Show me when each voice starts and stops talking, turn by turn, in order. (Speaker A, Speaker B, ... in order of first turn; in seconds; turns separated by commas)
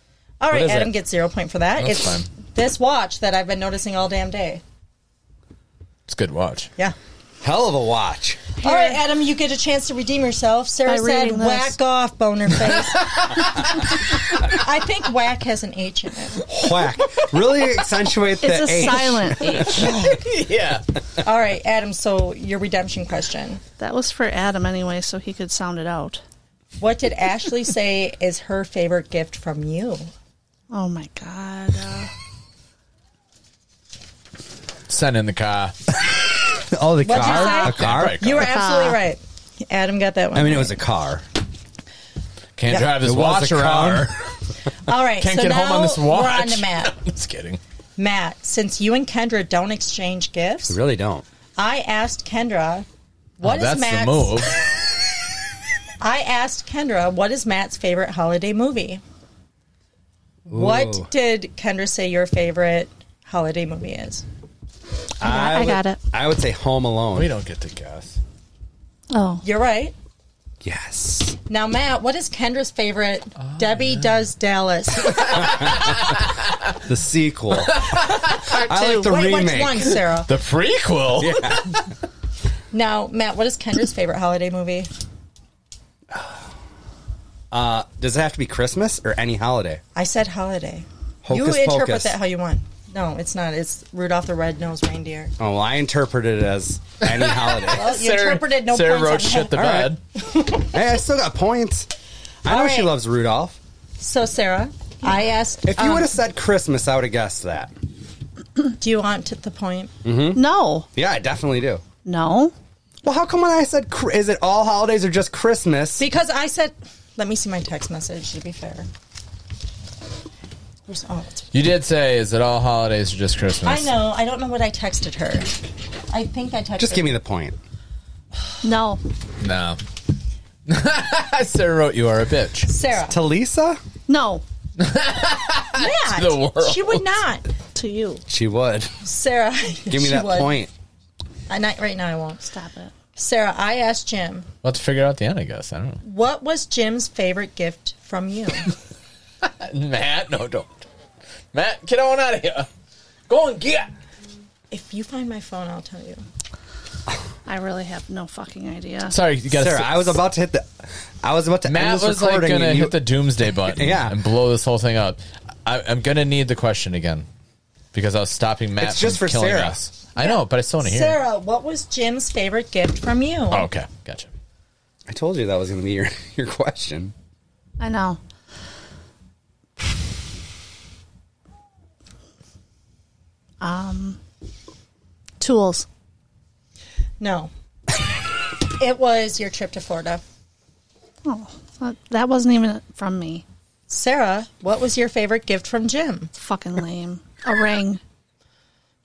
Speaker A: 0.4-4.6, Speaker B: 0.5-0.9, Speaker C: 1.8-2.3, Speaker C: 6.1-6.7, Speaker B: 7.4-8.5, Speaker D: 8.6-9.0, Speaker A: 8.6-16.5, Speaker D: 10.8-11.8, Speaker C: 12.8-13.5, Speaker B: 16.5-19.9, Speaker D: 18.4-19.9, Speaker C: 19.6-20.9, Speaker A: 21.2-23.6, Speaker D: 23.8-26.2, Speaker A: 26.8-30.1, Speaker D: 30.7-32.1, Speaker C: 34.9-35.8, Speaker B: 36.1-38.5, Speaker A: 37.0-40.8, Speaker D: 37.2-37.6, Speaker C: 37.7-38.5, Speaker D: 38.4-39.0, Speaker B: 40.3-41.2, Speaker C: 42.6-44.1, Speaker B: 42.7-44.2, Speaker A: 44.9-47.0, Speaker C: 45.2-47.6, Speaker A: 48.0-50.8, Speaker B: 50.7-51.2, Speaker A: 51.6-52.9, Speaker A: 53.4-54.5, Speaker C: 53.4-54.6, Speaker A: 56.0-59.0, Speaker A: 60.5-64.2, Speaker B: 60.5-61.1, Speaker B: 65.2-67.3, Speaker D: 65.2-66.0, Speaker C: 67.1-68.2, Speaker D: 69.1-69.5, Speaker A: 69.4-69.9, Speaker B: 70.6-71.4, Speaker A: 71.5-75.7, Speaker C: 73.4-74.1, Speaker C: 75.1-76.7, Speaker B: 76.9-77.9, Speaker C: 77.6-78.6, Speaker B: 78.5-79.9, Speaker A: 78.5-80.3, Speaker C: 80.2-81.8, Speaker B: 81.2-81.8, Speaker A: 82.7-84.9, Speaker B: 86.1-86.4, Speaker B: 87.5-89.8, Speaker A: 90.0-95.3, Speaker B: 91.2-92.2, Speaker B: 95.4-97.9, Speaker C: 97.0-100.0, Speaker A: 97.7-100.8, Speaker B: 99.5-100.0, Speaker B: 100.7-101.9, Speaker B: 102.5-103.6, Speaker A: 102.5-102.9, Speaker A: 104.0-106.1, Speaker B: 105.7-107.7, Speaker A: 108.8-109.9, Speaker B: 110.0-110.4, Speaker D: 110.3-110.9, Speaker B: 110.9-111.8, Speaker D: 112.0-112.5, Speaker B: 113.0-116.0, Speaker A: 116.0-118.9, Speaker A: 120.9-121.5, Speaker C: 121.5-123.9, Speaker A: 123.7-125.5, Speaker A: 126.1-127.1, Speaker B: 126.8-127.6, Speaker D: 128.6-129.0, Speaker C: 129.4-129.8, Speaker C: 130.7-132.7, Speaker A: 132.7-133.2, Speaker B: 133.1-133.8, Speaker D: 134.1-134.4, Speaker C: 134.8-137.0, Speaker A: 135.8-137.5, Speaker D: 137.7-138.2, Speaker B: 138.3-138.9, Speaker A: 139.1-140.5, Speaker B: 139.9-140.7, Speaker A: 141.5-142.4, Speaker D: 142.5-142.9, Speaker A: 143.2-144.5, Speaker C: 144.6-146.0, Speaker A: 146.0-148.7, Speaker C: 149.4-150.8, Speaker C: 151.5-152.7, Speaker C: 153.3-153.9, Speaker A: 154.7-156.2, Speaker D: 157.5-159.2, Speaker C: 159.1-160.2, Speaker B: 159.5-160.7, Speaker B: 161.2-164.2, Speaker C: 161.7-167.3, Speaker C: 167.9-171.2, Speaker B: 168.8-169.8, Speaker A: 170.2-173.7, Speaker C: 173.5-174.3, Speaker B: 175.1-177.1, Speaker D: 177.8-178.2, Speaker D: 183.6-184.2, Speaker D: 185.4-185.9, Speaker A: 187.2-187.5, Speaker A: 188.8-190.2, Speaker D: 191.2-193.4, Speaker A: 193.9-196.3, Speaker D: 196.4-198.0